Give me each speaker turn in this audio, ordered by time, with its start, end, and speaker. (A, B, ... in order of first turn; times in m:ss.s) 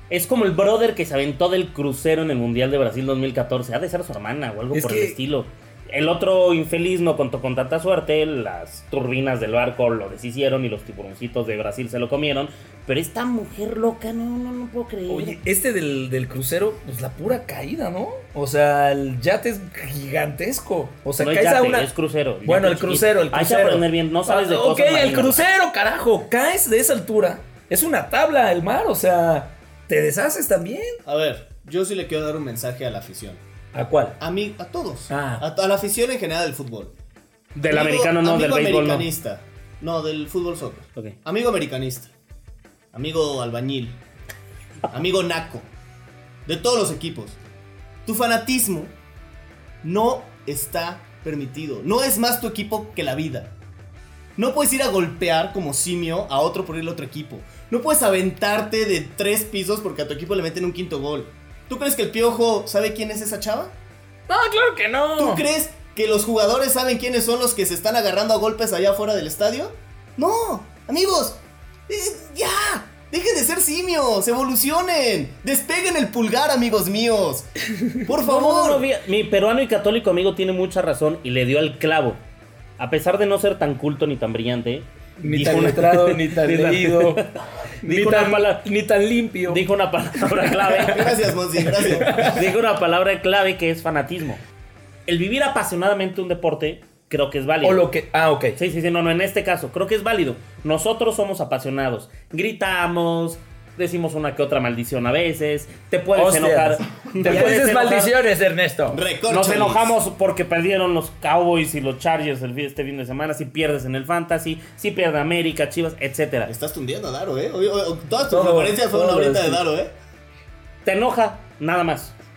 0:00.1-0:15.4 A
0:04.7-0:05.2 B
0:15.1-0:21.9 B
0:21.2-0:25.4 A
0:22.4-0:31.0 B
0:31.0-0:33.4 C
0:33.7-0:34.2 B
0:34.2-0:36.9 C
0:35.1-0:35.5 B
0:37.6-0:39.1 A
0:37.7-0:42.1 C
0:42.9-0:44.0 C
0:44.9-0:45.7 C
0:46.5-0:47.4 C
0:48.0-0:48.9 C
0:49.8-0:53.5 C
0:54.4-1:03.7 C
1:04.3-1:05.5 B
1:05.2-1:18.9 C
1:18.2-1:22.2 A
1:22.8-1:28.6 A
1:25.2-1:27.2 B
1:27.8-1:29.6 B
1:29.5-1:31.1 A
1:30.8-1:32.4 C
1:31.9-1:34.4 A
1:32.0-1:32.4 B
1:35.1-1:37.9 A
1:37.6-1:38.6 B
1:38.6-1:48.1 A
1:46.1-1:49.0 B
1:47.1-1:47.4 C
1:48.9-1:49.9 C
1:49.3-1:56.5 A
1:56.5-1:59.9 C
1:58.3-1:59.6 B
2:00.8-2:02.2 A